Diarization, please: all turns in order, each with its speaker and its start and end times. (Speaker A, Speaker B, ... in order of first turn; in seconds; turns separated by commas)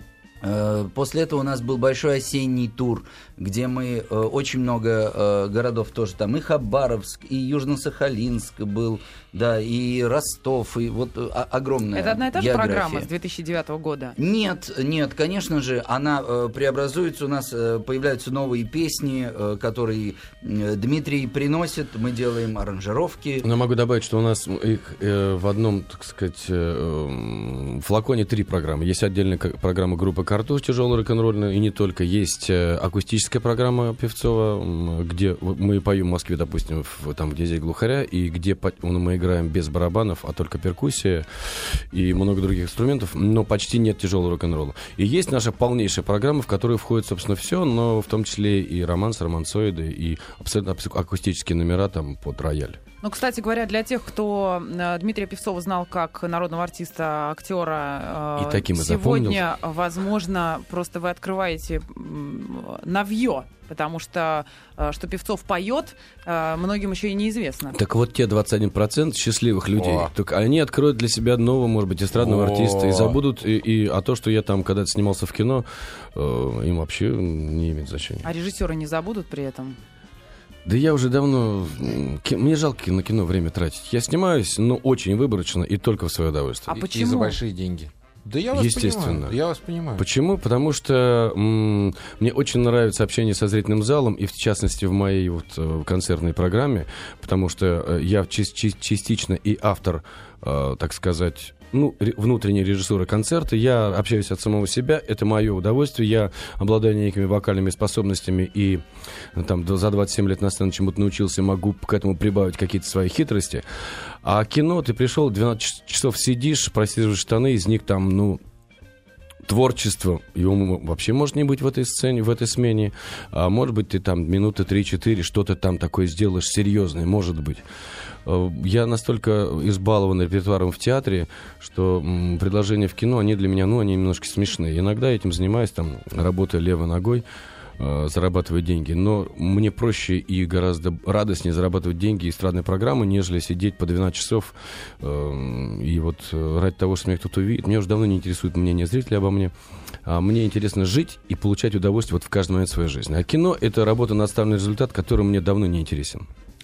Speaker A: 0.4-13.1, Speaker B: 11.9-14.2, Speaker A: 14.2-23.5, Speaker C: 23.4-52.8, Speaker B: 53.0-67.8, Speaker C: 58.4-59.5, Speaker C: 67.7-78.3, Speaker D: 69.8-70.1, Speaker D: 72.1-73.2, Speaker B: 78.2-79.8, Speaker C: 80.6-86.8, Speaker B: 86.7-87.4, Speaker D: 86.8-90.0, Speaker C: 88.5-89.4, Speaker C: 90.0-108.8, Speaker C: 109.3-113.6, Speaker C: 114.2-118.4, Speaker C: 119.4-127.6, Speaker C: 128.2-137.2, Speaker C: 137.8-149.5, Speaker C: 150.0-156.3